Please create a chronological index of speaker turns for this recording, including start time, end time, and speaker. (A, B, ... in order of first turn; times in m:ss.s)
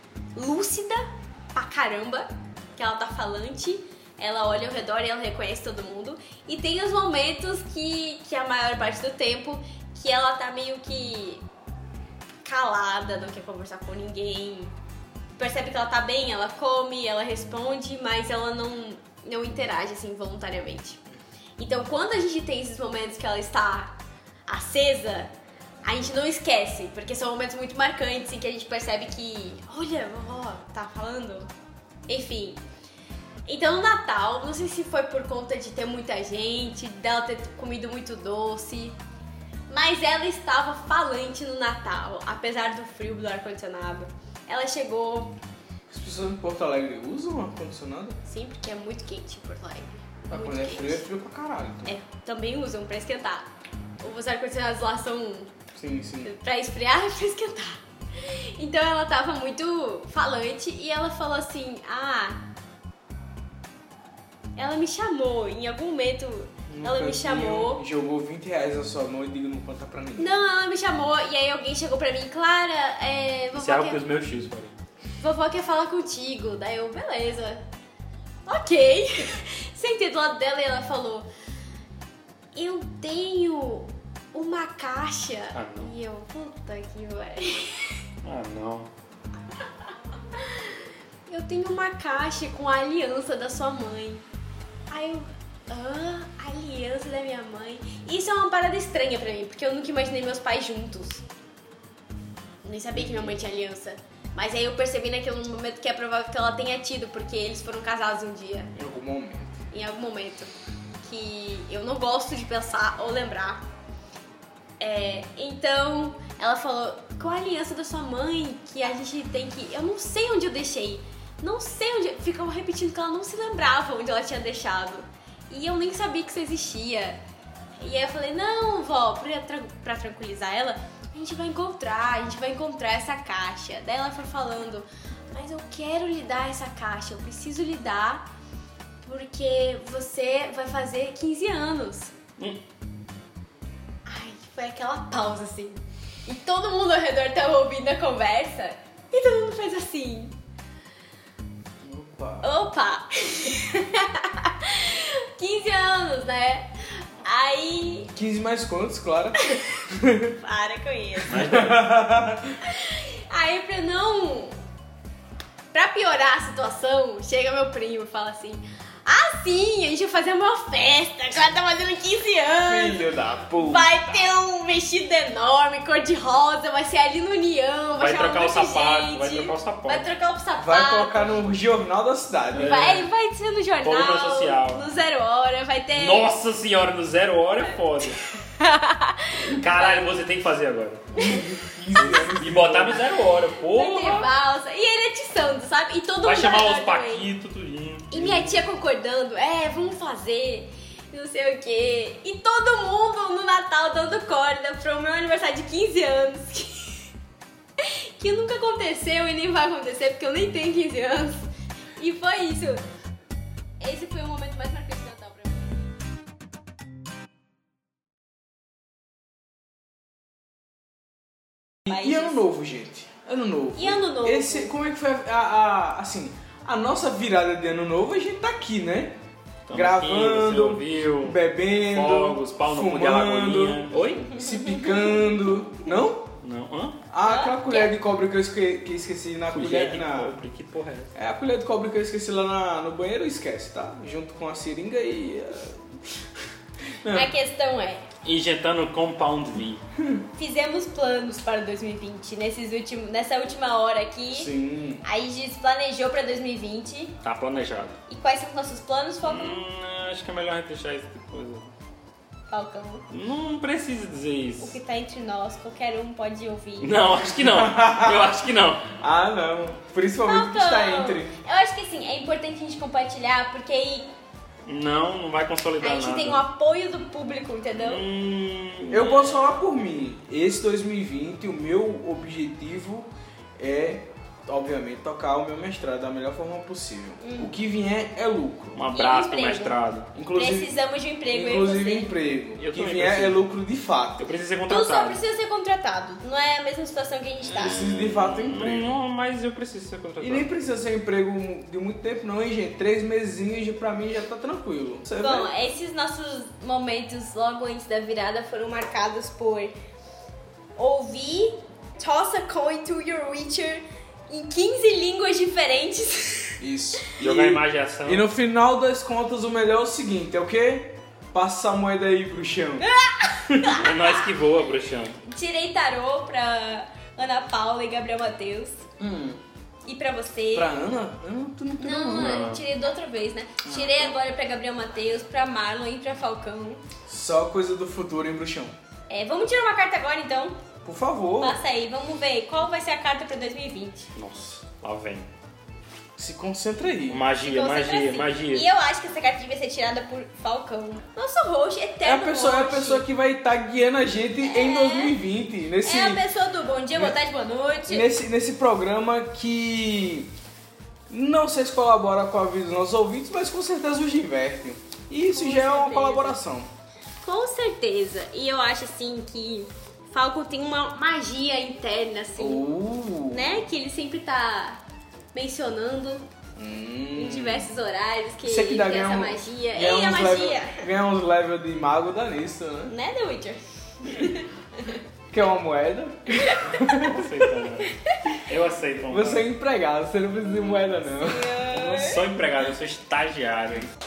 0:00.3-0:11.4 A
0:12.4-0:14.7 A
0:15.4-0:21.0 A
0:21.6-0:25.3 A
0:25.8-0:31.5 A
0:32.1-0:32.6 A
0:33.4-0:39.0 A
0:39.7-0:45.4 A
0:45.9-0:48.2 B
0:48.2-0:51.0 A
0:50.3-0:51.9 B
0:51.8-0:53.5 A
0:54.0-0:55.5 A
0:55.7-0:56.3 B
0:56.2-1:02.4 A
1:04.6-1:07.8 A
1:06.7-1:10.3 B
1:10.2-1:14.0 A
1:13.5-1:14.7 C
1:15.2-1:17.6 A
1:18.4-1:21.3 A
1:22.5-1:28.0 A
1:25.5-1:25.9 C
1:28.2-1:28.9 C
1:30.3-1:34.2 A
1:34.9-1:41.2 A
1:42.6-1:48.7 A
1:42.9-1:43.4 B
1:48.7-1:49.6 B
1:49.7-1:53.6 A
1:54.8-2:07.2 A
2:07.8-2:18.2 A
2:19.0-2:22.1 A
2:24.0-2:30.3 A
2:31.8-2:32.5 B
2:32.4-2:38.1 A
2:38.1-2:40.4 B
2:40.4-2:41.4 A
2:41.2-2:42.6 B
2:41.3-2:41.8 C
2:42.6-2:44.6 A
2:45.7-2:53.0 A
2:52.6-2:54.2 B
2:53.6-3:01.4 A
2:58.0-3:00.0 C
3:00.6-3:03.0 B
3:02.5-3:06.3 A
3:02.5-3:03.0 C
3:03.8-3:04.8 C
3:06.0-3:08.2 C
3:08.6-3:10.1 A
3:09.4-3:11.1 C
3:11.2-3:11.4 A
3:11.2-3:13.1 B
3:12.0-3:14.3 C
3:13.6-3:17.3 A
3:16.2-3:18.3 C
3:18.1-3:27.0 A
3:18.2-3:18.5 B
3:27.8-3:32.8 A
3:33.8-3:35.8 A
3:41.8-3:49.2 B
3:41.9-3:42.4 A
3:43.8-3:44.7 A
3:49.7-3:54.3 C
3:49.7-3:56.3 B
3:56.4-3:57.0 C
3:57.1-4:00.3 B
3:57.2-3:57.9 A
3:59.5-4:01.1 C
4:01.1-4:06.4 B
4:07.0-4:07.3 B
4:07.1-4:08.1 A
4:08.2-4:09.8 C
4:10.4-4:14.5 A
4:14.3-4:15.0 B
4:15.0-4:17.2 A
4:17.2-4:18.0 C
4:18.1-4:19.6 A
4:19.2-4:21.7 C
4:22.5-4:23.0 A
4:23.1-4:24.8 C
4:24.6-4:27.0 A
4:26.8-4:28.9 C
4:27.4-4:28.3 B
4:29.0-4:31.4 B
4:30.2-4:34.1 A
4:34.6-4:36.4 C
4:35.8-4:38.0 A
4:37.8-4:39.4 C
4:38.9-4:48.8 B
4:47.2-4:47.5 A
4:48.7-4:50.1 C
4:48.9-4:49.8 A
4:50.1-4:50.7 B
4:50.3-4:52.1 A
4:51.3-4:54.3 B
4:52.6-4:53.4 C
4:54.2-4:55.2 C
4:54.7-4:57.9 A
4:57.5-4:59.0 B
4:57.5-5:00.5 C
5:00.2-5:05.5 B
5:05.2-5:09.7 A
5:10.8-5:16.6 A
5:16.6-5:22.9 B
5:17.2-5:18.2 C
5:22.8-5:24.1 A
5:23.7-5:25.2 C
5:25.2-5:28.8 A
5:29.0-5:29.4 B
5:29.8-5:30.7 A
5:30.5-5:32.5 B
5:31.8-5:36.8 A
5:32.1-5:32.6 C
5:33.6-5:34.1 B
5:37.0-5:38.7 B
5:39.1-5:40.6 A
5:40.8-5:41.6 B
5:41.4-5:44.1 A
5:44.2-5:45.3 C
5:46.2-5:47.2 B
5:47.1-5:48.7 C
5:47.4-5:53.0 A
5:52.0-5:56.2 B
5:54.4-5:55.2 A
5:55.8-5:58.1 A
5:57.9-6:00.3 B
6:01.1-6:06.7 B
6:05.3-6:06.4 A
6:07.2-6:12.6 A
6:12.4-6:13.5 B
6:13.3-6:14.8 A
6:15.3-6:16.3 A
6:16.6-6:17.7 B
6:17.1-6:20.8 A
6:18.4-6:22.9 B
6:22.9-6:25.0 A
6:24.1-6:24.3 B
6:25.3-6:27.3 B
6:26.3-6:26.9 A
6:26.9-6:29.5 C
6:27.8-6:28.4 A
6:29.1-6:31.5 B
6:31.1-6:32.2 A
6:31.7-6:33.9 C